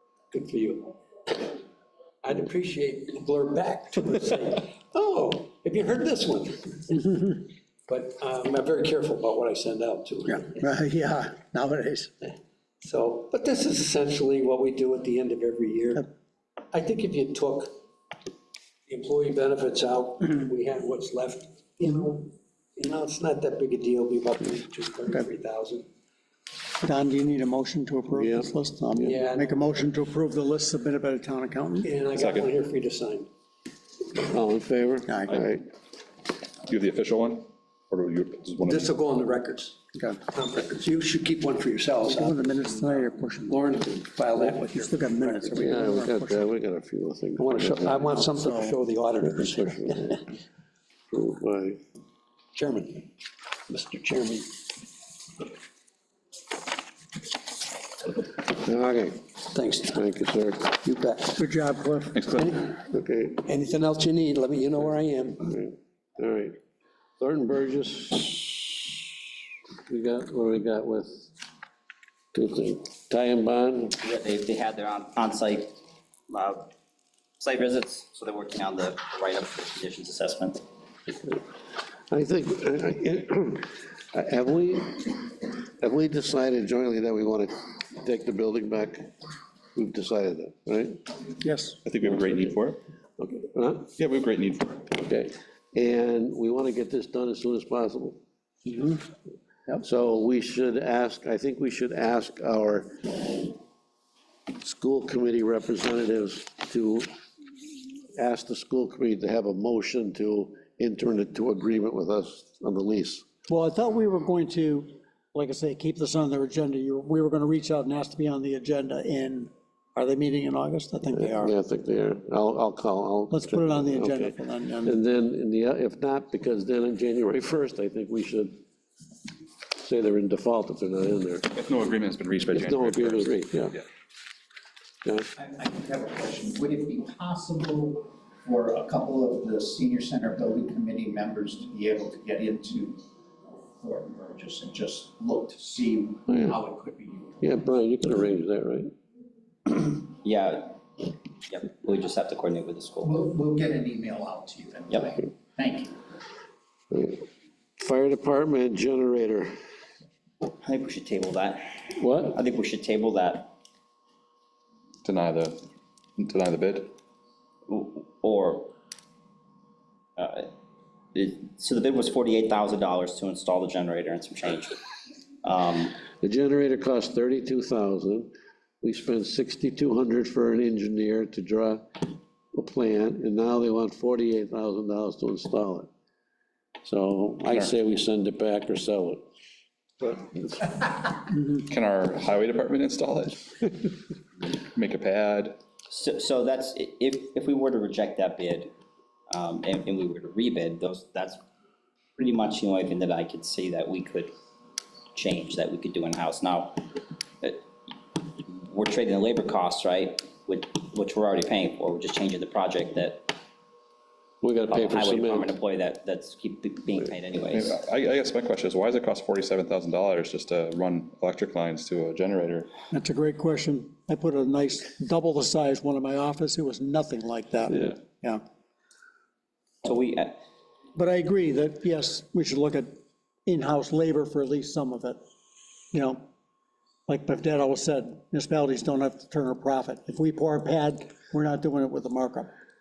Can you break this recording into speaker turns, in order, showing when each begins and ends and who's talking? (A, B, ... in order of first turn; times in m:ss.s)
0:00.3-0:01.6 A
0:02.2-0:10.6 A
0:10.3-0:12.1 B
0:12.8-0:16.1 A
0:16.7-0:17.8 A
0:18.9-0:25.9 A
0:26.8-0:31.9 B
0:28.1-0:29.2 C
0:29.0-0:29.6 A
0:31.8-0:33.3 A
0:32.2-0:32.5 D
0:34.2-0:35.6 C
0:35.1-0:35.4 B
0:36.7-0:38.9 D
0:38.6-0:46.0 A
0:40.0-0:40.2 B
0:42.0-0:43.6 B
0:44.4-0:46.4 B
0:45.6-0:48.1 C
0:47.4-0:50.2 A
0:48.1-0:48.8 B
0:49.2-0:50.2 C
0:51.1-0:51.8 C
0:52.6-0:53.1 A
0:53.7-0:54.6 A
0:58.5-0:59.3 C
0:59.5-1:01.4 A
0:59.9-1:00.7 C
1:01.4-1:02.2 B
1:02.2-1:02.7 D
1:02.3-1:02.7 A
1:02.9-1:03.4 C
1:03.4-1:05.5 A
1:05.4-1:06.6 C
1:07.2-1:09.0 C
1:09.9-1:11.3 C
1:12.3-1:14.0 C
1:14.0-1:15.8 E
1:16.3-1:16.7 E
1:17.4-1:20.6 E
1:22.1-1:29.1 C
1:29.8-1:31.0 C
1:31.4-1:31.8 B
1:31.8-1:32.8 D
1:33.2-1:33.9 C
1:34.0-1:35.0 D
1:35.0-1:38.2 C
1:38.7-1:39.0 B
1:39.8-1:43.5 C
1:44.6-1:47.1 C
1:48.2-1:53.2 C
1:53.5-2:01.5 B
2:01.2-2:08.6 C
2:03.3-2:04.9 B
2:09.8-2:11.5 C
2:11.5-2:13.8 D
2:12.5-2:13.8 C
2:15.4-2:23.0 F
2:23.8-2:27.5 F
2:26.3-2:26.6 C
2:27.4-2:28.9 C
2:29.7-2:30.8 E
2:31.5-2:33.2 E
2:33.0-2:36.0 F
2:36.9-2:37.2 C
2:37.8-2:39.5 C
2:40.6-2:43.5 E
2:42.0-2:42.4 C
2:45.0-2:45.6 D
2:46.2-2:46.9 D
2:47.7-2:48.7 E
2:50.2-2:50.5 E
2:51.1-2:54.8 E
2:55.4-2:56.0 E
2:56.2-2:58.3 C
2:58.8-3:05.9 C
3:06.8-3:09.2 C
3:07.5-3:07.7 D
3:10.0-3:10.7 C
3:11.6-3:13.7 D
3:14.7-3:15.6 D
3:15.9-3:18.7 E
3:19.3-3:21.4 E
3:22.2-3:24.3 E
3:25.2-3:26.8 E
3:27.4-3:33.3 E
3:34.4-3:35.5 C
3:34.7-3:37.8 E
3:37.5-3:42.7 D
3:42.9-3:48.4 B
3:49.8-3:50.4 E
3:51.0-3:55.2 B
3:55.9-3:56.3 B
3:57.1-4:02.5 B